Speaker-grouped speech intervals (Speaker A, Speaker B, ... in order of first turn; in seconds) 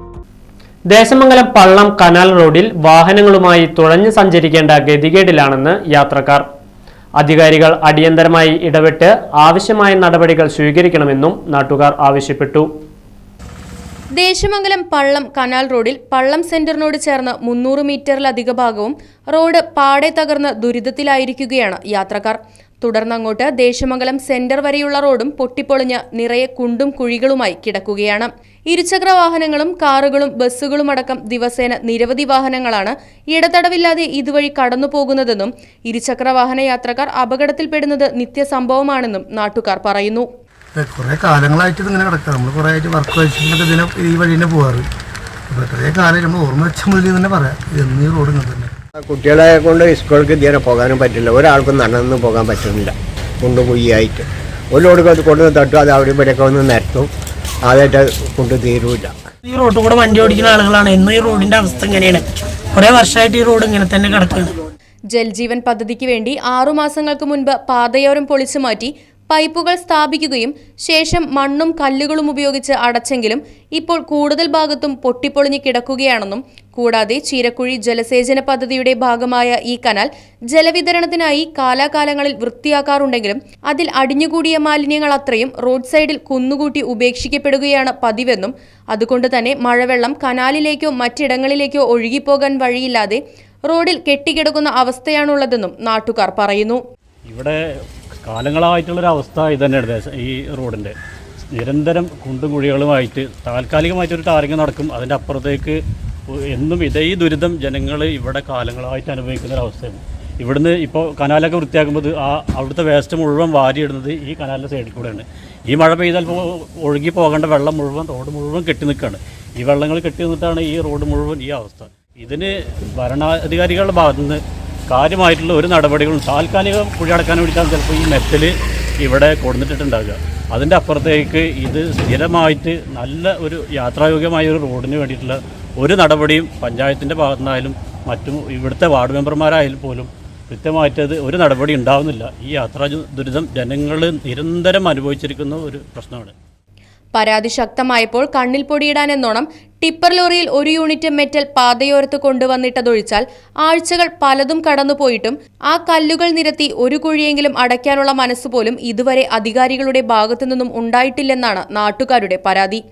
Speaker A: 0.9-6.5, 7.2-12.7
Speaker B: 14.2-40.3, 65.1-96.8, 147.1-162.8
Speaker C: 40.8-44.9, 45.5-48.7
Speaker D: 49.0-57.1, 57.6-59.1
Speaker E: 59.4-64.6
Speaker F: 97.3-97.6, 98.2-100.9, 101.5-105.8, 106.3-128.5, 129.0-146.3